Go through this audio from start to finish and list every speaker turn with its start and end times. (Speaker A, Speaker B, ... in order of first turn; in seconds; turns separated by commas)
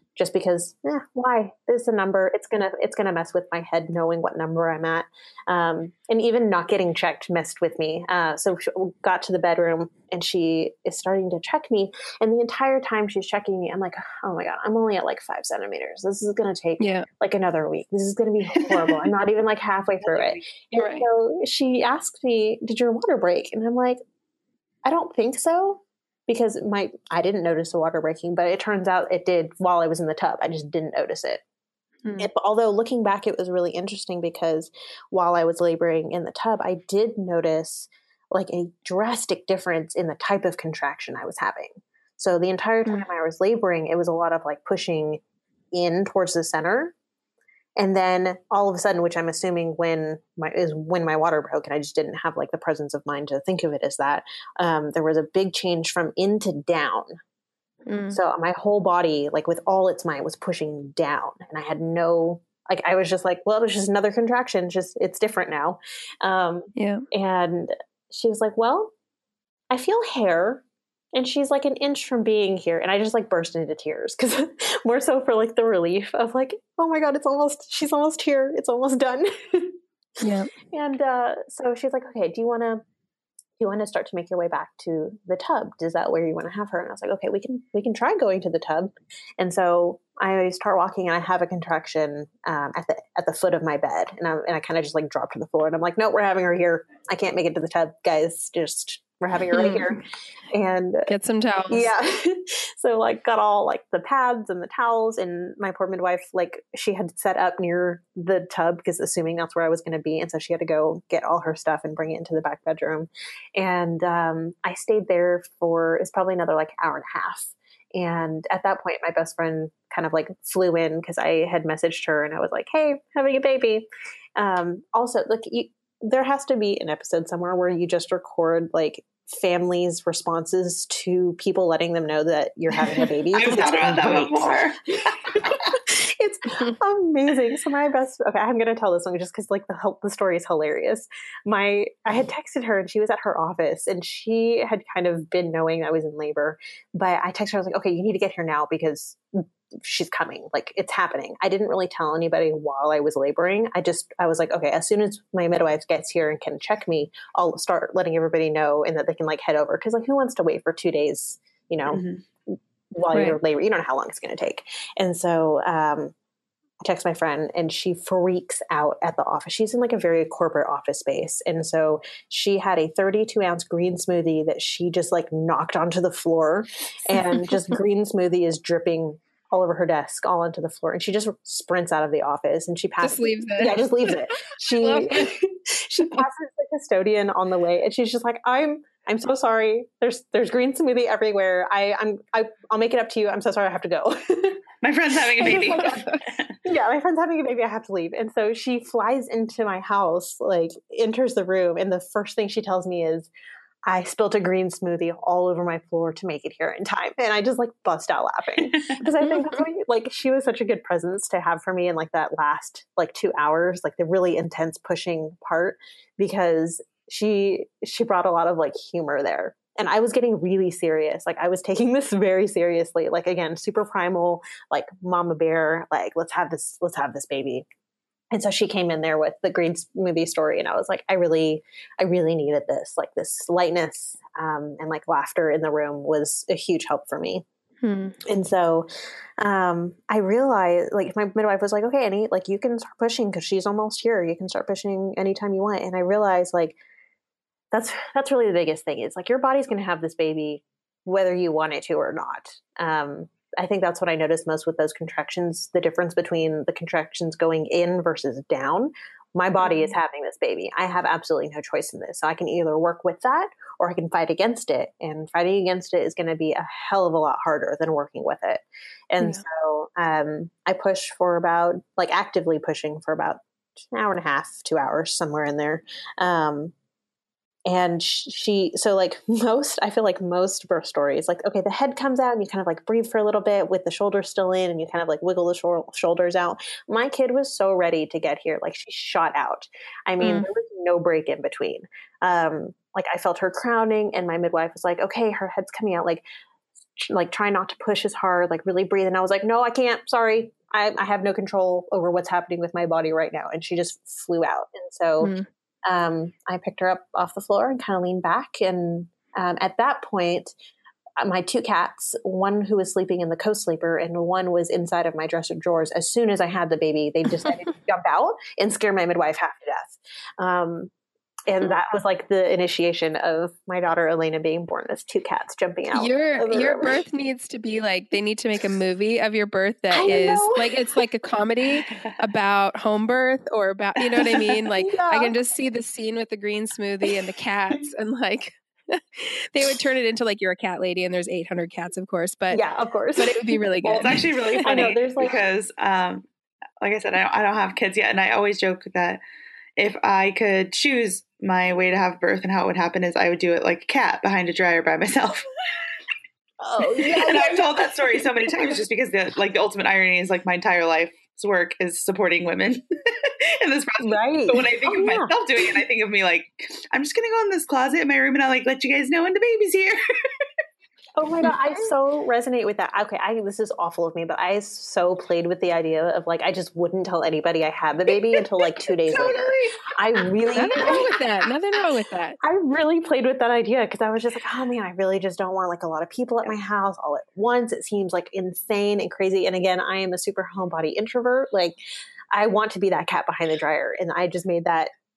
Speaker A: 0.1-24.0, Speaker B: 16.8-17.1, Speaker C: 18.6-19.0, Speaker C: 20.0-20.4, Speaker B: 20.8-21.1, Speaker A: 24.8-31.4, Speaker B: 32.0-32.3, Speaker A: 32.2-45.2, Speaker A: 45.7-46.9, Speaker A: 47.8-57.1, Speaker B: 57.9-58.2, Speaker A: 58.1-68.9, Speaker B: 66.8-67.0, Speaker A: 69.7-70.6, Speaker A: 71.1-79.8, Speaker B: 80.2-80.5, Speaker A: 80.7-82.8, Speaker A: 83.6-101.1, Speaker B: 99.5-99.9, Speaker B: 101.1-101.9, Speaker A: 101.7-134.6, Speaker C: 133.3-135.8, Speaker A: 135.3-166.1, Speaker C: 161.9-162.2, Speaker B: 163.1-163.4, Speaker A: 166.8-194.6, Speaker B: 177.2-177.7, Speaker B: 183.0-185.3, Speaker C: 194.8-196.6, Speaker A: 195.2-196.0, Speaker B: 195.4-196.2, Speaker A: 196.6-203.3, Speaker A: 203.8-227.6, Speaker A: 228.3-237.4, Speaker B: 237.8-238.2, Speaker A: 238.3-238.9, Speaker A: 239.4-246.8, Speaker A: 247.7-276.7, Speaker A: 277.6-296.2, Speaker B: 290.2-290.5, Speaker A: 297.0-305.3, Speaker B: 305.2-305.5, Speaker A: 305.9-310.6, Speaker A: 311.2-320.9, Speaker A: 321.5-327.0, Speaker B: 325.9-342.6, Speaker A: 329.9-330.7, Speaker A: 334.8-335.3, Speaker A: 342.5-345.4, Speaker B: 343.1-344.6, Speaker C: 343.9-346.2, Speaker C: 346.8-349.2, Speaker C: 349.8-355.5, Speaker A: 356.6-357.9, Speaker C: 357.0-370.0, Speaker A: 364.0-365.4, Speaker A: 371.1-381.1, Speaker C: 378.3-381.2, Speaker B: 380.6-382.4, Speaker A: 382.4-391.8, Speaker A: 392.3-394.9